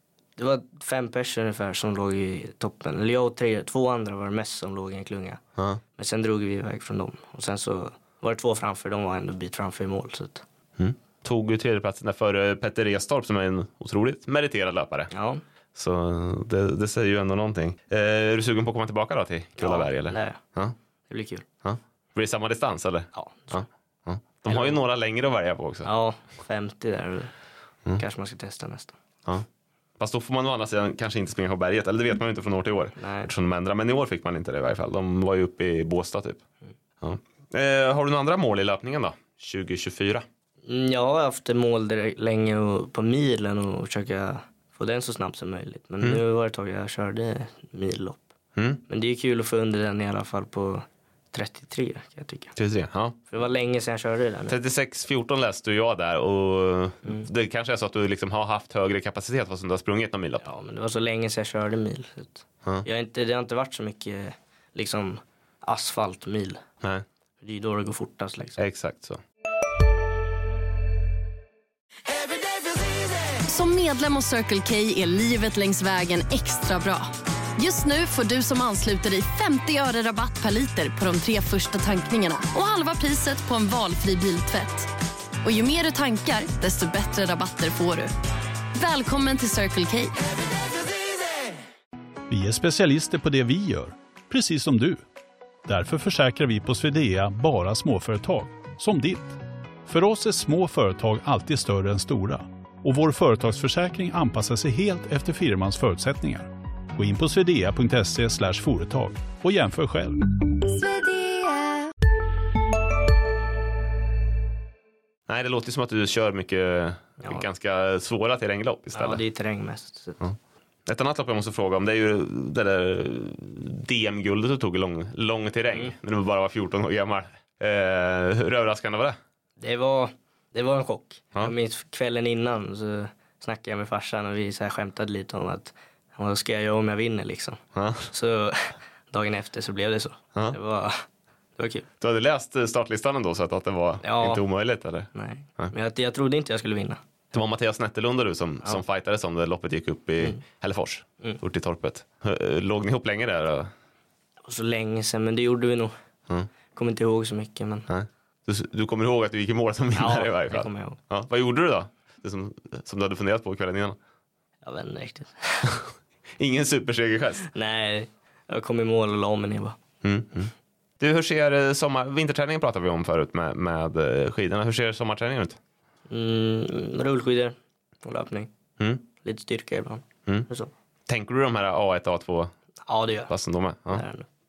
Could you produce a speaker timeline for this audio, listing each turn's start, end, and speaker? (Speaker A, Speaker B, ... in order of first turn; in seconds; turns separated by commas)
Speaker A: 0.4-5.4, Speaker A: 6.0-10.4, Speaker B: 10.8-15.1, Speaker A: 15.1-15.4, Speaker B: 15.8-20.7, Speaker A: 19.6-20.4, Speaker A: 21.1-21.4, Speaker B: 21.6-25.9, Speaker A: 23.1-23.6, Speaker A: 24.5-24.8, Speaker A: 25.8-27.3, Speaker A: 28.0-29.0, Speaker B: 30.0-36.4, Speaker A: 33.0-33.3, Speaker B: 37.0-40.2, Speaker A: 40.7-48.3, Speaker B: 48.6-48.8, Speaker A: 48.9-52.6, Speaker B: 52.6-53.2, Speaker A: 53.3-54.5, Speaker B: 54.5-60.4, Speaker A: 60.4-66.6, Speaker A: 67.4-68.6, Speaker B: 68.6-69.2, Speaker C: 73.5-84.9, Speaker C: 85.4-88.1, Speaker C: 88.8-90.3, Speaker D: 92.3-95.0, Speaker D: 95.7-110.2, Speaker B: 115.3-119.2, Speaker A: 118.9-120.2, Speaker B: 120.9-129.2, Speaker A: 129.6-141.0, Speaker B: 137.8-138.1, Speaker A: 141.6-141.9, Speaker B: 142.0-145.7, Speaker A: 144.0-144.4, Speaker A: 145.1-147.0, Speaker B: 147.3-153.7, Speaker A: 154.4-155.9, Speaker A: 156.7-157.9, Speaker B: 157.9-164.0, Speaker A: 159.9-161.0, Speaker A: 164.6-165.8, Speaker B: 166.4-167.5, Speaker A: 167.4-169.8, Speaker B: 170.0-175.6, Speaker A: 176.1-178.5, Speaker A: 179.2-180.7, Speaker B: 181.1-182.5, Speaker A: 182.9-183.3, Speaker B: 183.3-184.0, Speaker A: 183.9-184.3